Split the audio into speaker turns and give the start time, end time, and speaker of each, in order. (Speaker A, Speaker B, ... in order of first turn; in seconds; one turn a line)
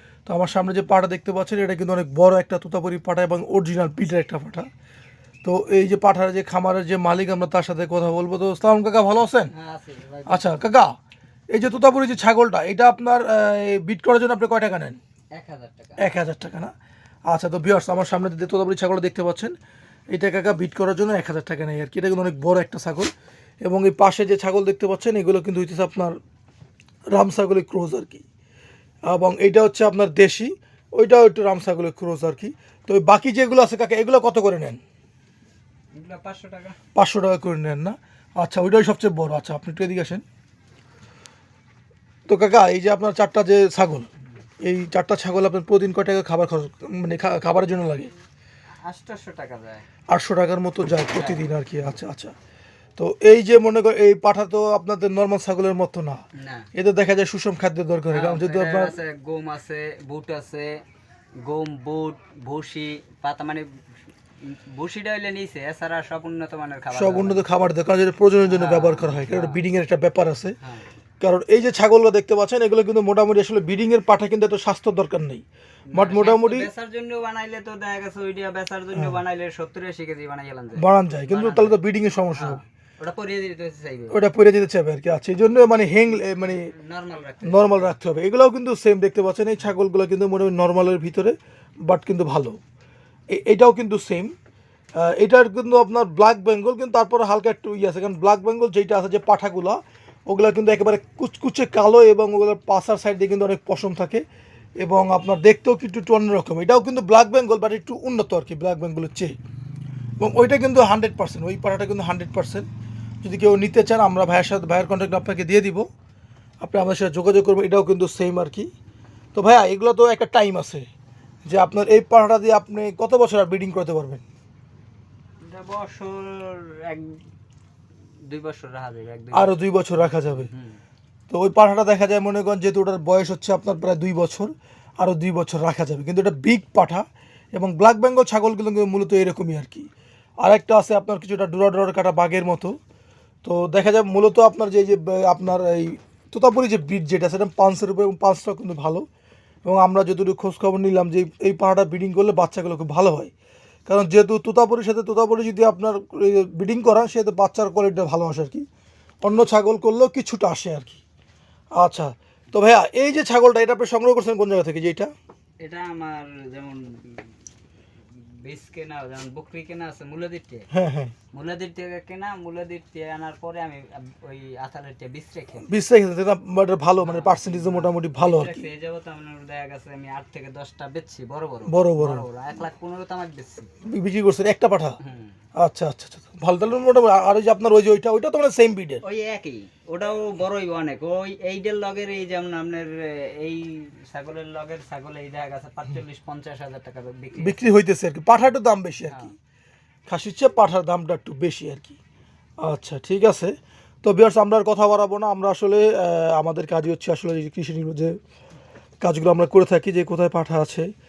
Speaker A: 0.3-4.7
Speaker A: 5.4-9.5
Speaker B: 9.5-10.6
Speaker A: 10.3-10.9
Speaker A: 11.5-15.0
Speaker B: 15.3-16.2
Speaker A: 16.0-16.7
Speaker A: 17.3-19.6
Speaker A: 20.1-23.1
Speaker A: 23.6-26.2
Speaker A: 27.1-28.2
Speaker A: 29.1-34.8
Speaker B: 35.9-36.8
Speaker A: 37.0-40.2
Speaker A: 42.3-44.1
Speaker A: 44.6-48.1
Speaker B: 48.8-49.9
Speaker A: 50.1-52.3
Speaker B: 51.1-51.5
Speaker A: 53.0-59.0
Speaker B: 56.4-56.7
Speaker B: 58.1-60.8
Speaker B: 61.4-63.8
Speaker B: 64.4-67.4
Speaker A: 66.9-70.6
Speaker B: 68.4-69.6
Speaker B: 70.6-70.9
Speaker A: 71.2-76.7
Speaker B: 75.9-81.8
Speaker A: 80.8-82.6
Speaker B: 82.3-84.2
Speaker A: 84.1-86.7
Speaker B: 86.1-88.0
Speaker A: 87.4-92.6
Speaker A: 93.3-94.3
Speaker A: 95.0-104.2
Speaker A: 104.8-109.4
Speaker A: 110.2-112.7
Speaker A: 113.2-115.9
Speaker A: 116.6-118.7
Speaker A: 119.3-120.9
Speaker A: 121.5-124.2
Speaker B: 125.4-127.2
Speaker B: 128.2-129.6
Speaker A: 129.3-130.5
Speaker B: 130.2-130.8
Speaker A: 131.3-139.9
Speaker A: 140.4-142.8
Speaker A: 143.4-149.1
Speaker A: 149.7-153.3
Speaker A: 153.9-158.7
Speaker A: 159.2-161.0
Speaker A: 161.8-165.1
Speaker B: 165.6-167.3
Speaker B: 168.1-170.7
Speaker A: 170.7-171.1
Speaker B: 171.3-175.7
Speaker A: 175.7-178.7
Speaker B: 177.0-183.7
Speaker A: 181.7-182.3
Speaker A: 183.9-185.0
Speaker B: 185.0-185.4
Speaker A: 185.6-189.0
Speaker B: 189.0-197.6
Speaker A: 197.4-199.3
Speaker A: 200.1-202.0
Speaker A: 202.6-208.2
Speaker A: 209.0-210.9